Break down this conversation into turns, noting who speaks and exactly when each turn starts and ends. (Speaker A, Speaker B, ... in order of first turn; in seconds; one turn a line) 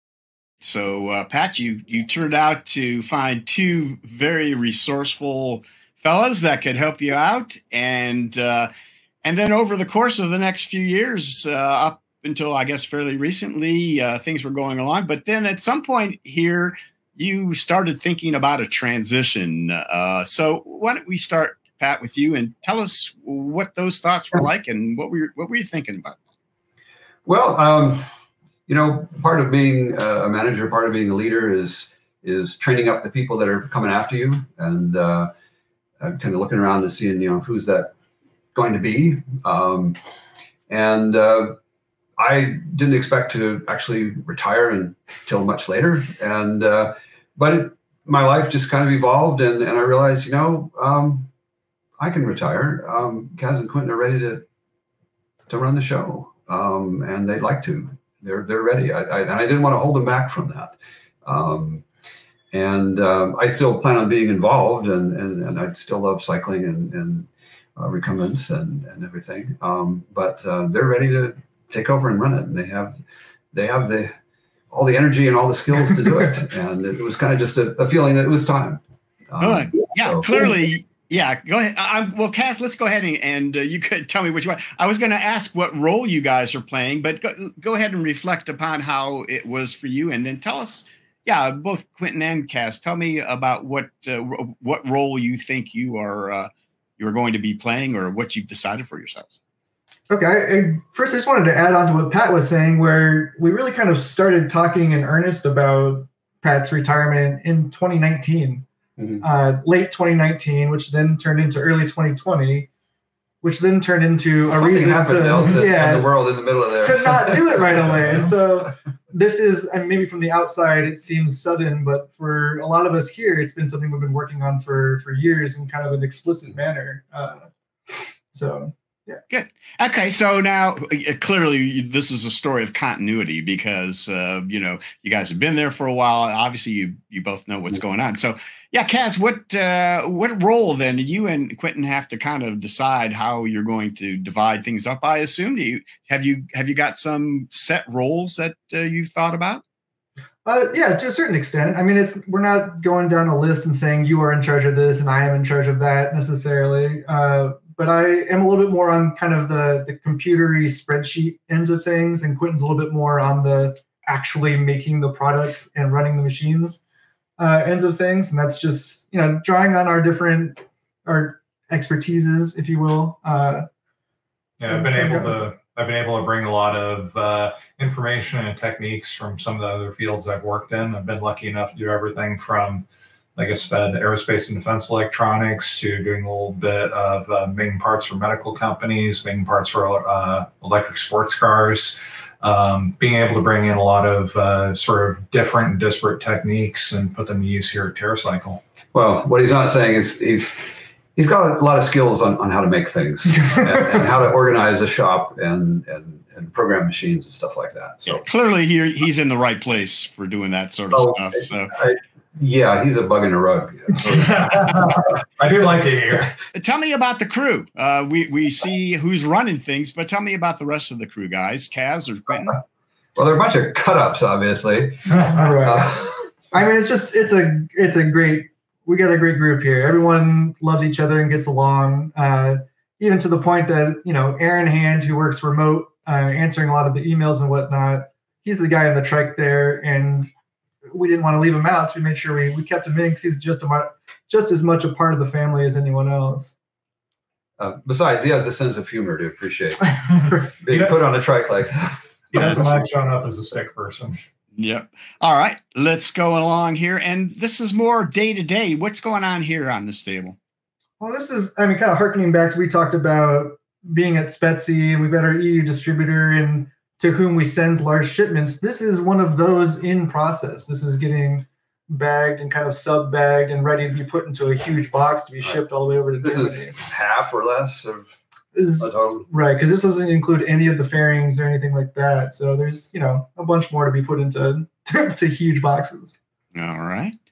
Speaker A: 0.6-8.7
Speaker A: 9.2-26.2
Speaker B: 27.3-28.1
Speaker B: 28.7-35.3
Speaker B: 36.0-37.9
Speaker B: 38.5-40.0
Speaker B: 40.7-41.6
Speaker B: 42.2-51.3
Speaker B: 52.0-54.5
Speaker B: 55.5-61.9
Speaker B: 62.5-73.0
Speaker B: 73.5-74.1
Speaker B: 74.7-80.5
Speaker A: 79.4-99.4
Speaker C: 100.1-108.7
Speaker B: 109.0-109.2
Speaker C: 109.2-112.7
Speaker C: 113.4-116.1
Speaker B: 114.5-118.3
Speaker C: 116.8-127.5
Speaker C: 128.3-129.2
Speaker A: 129.3-149.6
Speaker C: 150.4-166.8
Speaker C: 167.4-173.7
Speaker D: 174.6-182.8
Speaker C: 174.7-175.5
Speaker D: 183.4-198.6
Speaker B: 198.9-208.2
Speaker A: 208.1-211.7
Speaker B: 210.9-215.0
Speaker D: 214.0-216.3
Speaker B: 215.6-216.3
Speaker A: 216.5-222.6
Speaker B: 223.2-226.2
Speaker C: 225.3-226.0
Speaker C: 226.5-240.3
Speaker C: 240.9-246.6
Speaker B: 247.6-252.9
Speaker D: 252.3-254.2
Speaker A: 254.6-260.4
Speaker C: 261.0-276.8
Speaker B: 276.2-278.1
Speaker C: 278.6-286.2
Speaker B: 278.8-279.3
Speaker A: 286.6-287.2